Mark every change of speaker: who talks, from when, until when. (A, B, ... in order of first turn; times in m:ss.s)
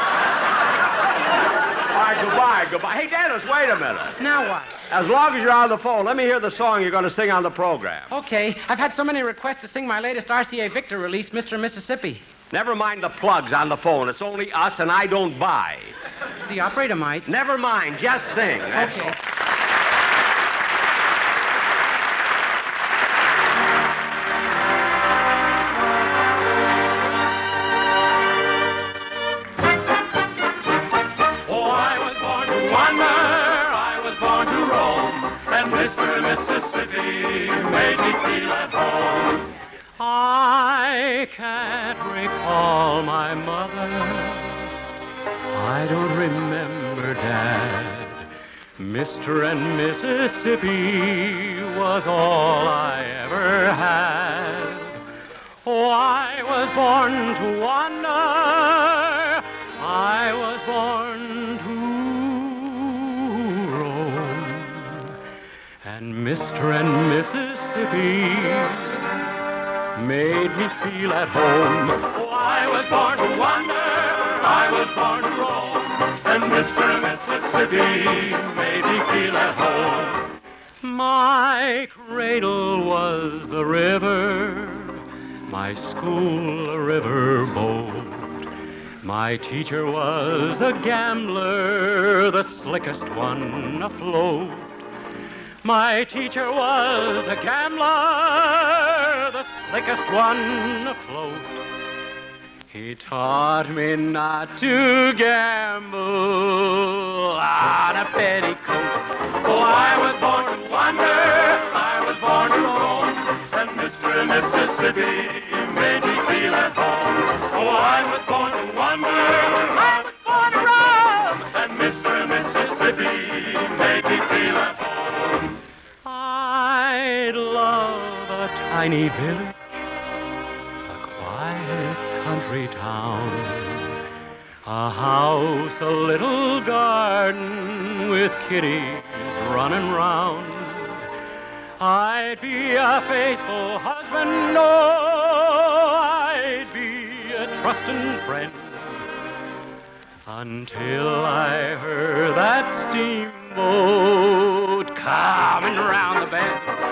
0:01.9-0:04.2 A
0:04.2-0:04.7 B
0:04.9-0:08.1 A
0:08.1-0:12.2 B
0:12.5-0:15.9 A
0:16.5-0:17.3 B
0:17.2-0:19.1 A
0:18.7-0:19.1 B
0:31.4-0:39.5 C
0:40.0-0:44.7 D
0:45.5-0:48.2 D
0:48.8-0:55.0 D
0:55.6-1:05.1 D
1:05.8-1:09.0 D
1:10.0-1:12.1 D
1:12.1-1:20.2 C
1:20.8-1:28.4 D
1:29.0-1:34.7 D
1:35.6-1:41.6 D
1:42.7-1:49.0 D
1:49.4-2:05.6 C
2:06.0-2:09.6 D
2:10.9-2:13.9 D
2:14.6-2:21.0 D
2:21.8-2:29.0 D
2:30.2-2:36.7 D